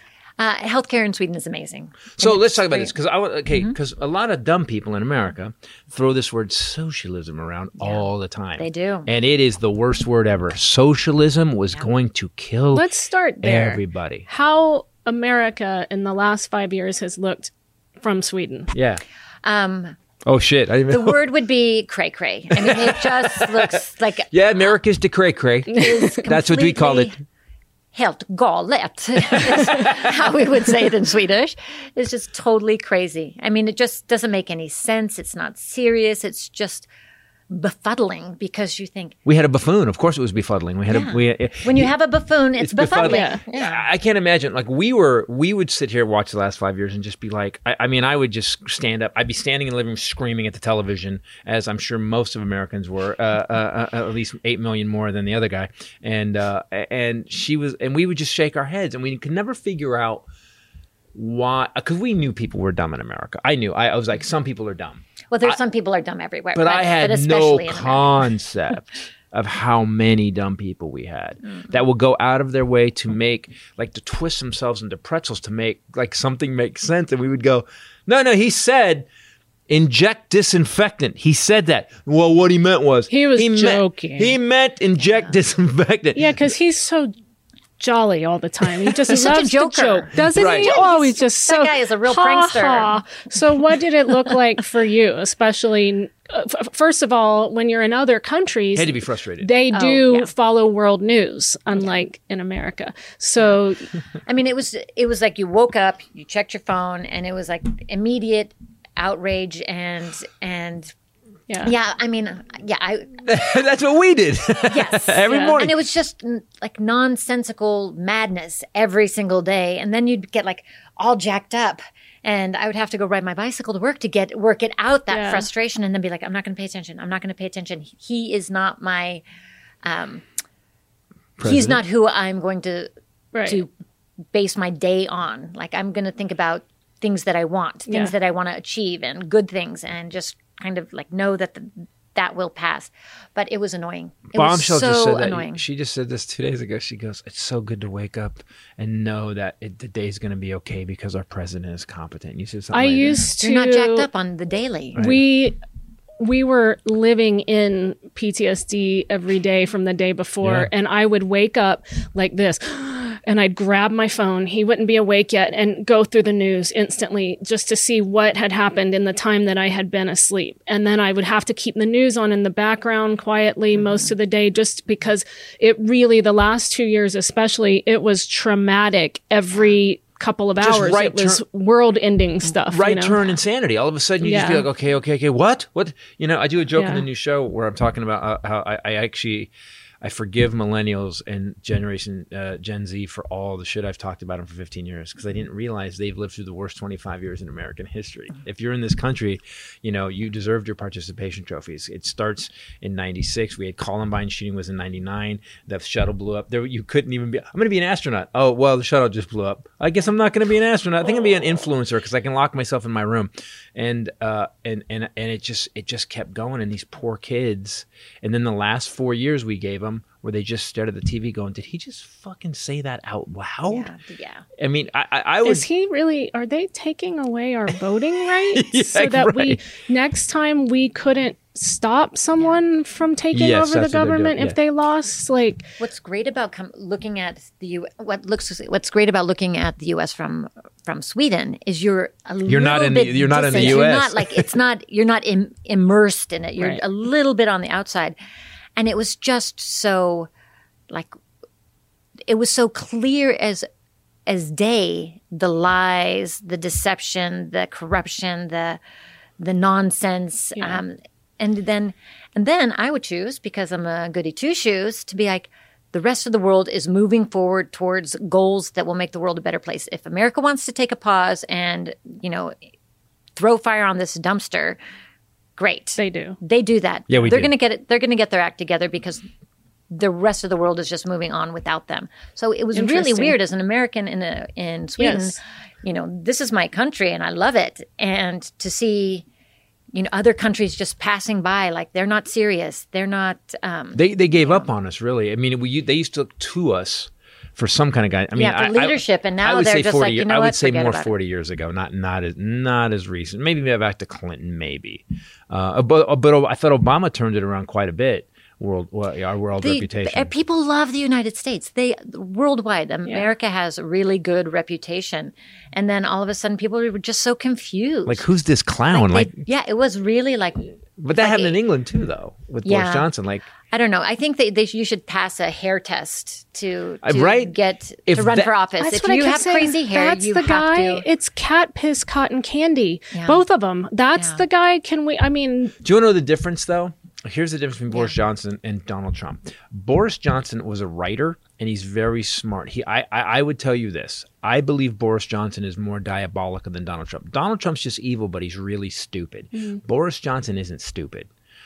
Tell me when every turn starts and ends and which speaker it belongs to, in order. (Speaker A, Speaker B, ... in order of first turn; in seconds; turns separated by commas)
Speaker A: 0.4-2.9, Speaker B: 2.2-12.9, Speaker A: 7.8-8.1, Speaker A: 8.6-9.1, Speaker C: 12.7-18.7, Speaker B: 13.4-14.3, Speaker B: 18.7-19.0, Speaker A: 19.4-20.0, Speaker B: 20.2-21.2, Speaker A: 20.9-24.3, Speaker B: 22.5-23.8, Speaker B: 24.3-27.1, Speaker A: 25.7-27.2, Speaker C: 25.8-26.1, Speaker A: 27.9-36.9, Speaker B: 29.4-30.0, Speaker A: 37.5-39.2, Speaker B: 39.3-41.9, Speaker A: 40.9-43.8, Speaker B: 42.6-60.2, Speaker C: 43.0-43.4, Speaker B: 61.1-65.6, Speaker A: 65.3-68.3, Speaker B: 66.5-79.1, Speaker B: 79.7-86.4, Speaker C: 83.1-84.4, Speaker C: 86.2-87.1, Speaker C: 87.8-103.9, Speaker A: 88.9-92.9, Speaker B: 90.3-90.8, Speaker B: 98.8-99.5, Speaker A: 99.7-100.3, Speaker A: 104.2-110.9, Speaker A: 111.6-113.3, Speaker B: 113.3-115.8, Speaker A: 114.7-129.2, Speaker C: 115.3-115.6, Speaker C: 125.1-125.5, Speaker A: 129.8-130.2, Speaker B: 131.4-131.8, Speaker A: 131.4-132.9, Speaker C: 133.3-133.6, Speaker A: 133.4-133.7, Speaker A: 134.3-145.6, Speaker C: 137.9-138.1, Speaker B: 144.3-153.2, Speaker C: 152.7-154.1, Speaker A: 153.4-155.0, Speaker B: 154.9-155.2, Speaker C: 155.0-155.6, Speaker C: 156.2-183.3, Speaker B: 160.4-160.7, Speaker B: 180.6-181.4, Speaker B: 182.5-223.9, Speaker C: 184.2-184.7, Speaker C: 186.8-187.1, Speaker A: 223.7-224.4, Speaker B: 224.6-225.7, Speaker C: 225.4-235.6, Speaker B: 228.5-229.6, Speaker B: 233.3-234.6, Speaker A: 235.8-248.2, Speaker B: 242.5-244.5, Speaker A: 248.8-250.3, Speaker A: 252.3-253.7, Speaker A: 254.3-258.8, Speaker A: 259.4-272.6, Speaker C: 260.6-260.8, Speaker A: 273.4-274.8, Speaker A: 275.6-279.2, Speaker C: 276.0-276.4, Speaker B: 277.1-277.5, Speaker A: 279.9-289.2, Speaker C: 282.7-283.4, Speaker C: 285.0-285.3, Speaker A: 289.9-294.7, Speaker B: 294.0-310.3, Speaker A: 298.4-301.1, Speaker A: 309.6-318.2, Speaker B: 318.1-319.4, Speaker A: 318.9-321.6, Speaker B: 321.0-323.5, Speaker A: 322.6-323.1, Speaker A: 323.7-331.1, Speaker B: 327.0-327.5, Speaker B: 328.1-328.5, Speaker C: 328.8-335.8, Speaker A: 333.1-333.4, Speaker A: 334.2-334.4, Speaker B: 335.8-351.3, Speaker C: 349.6-349.8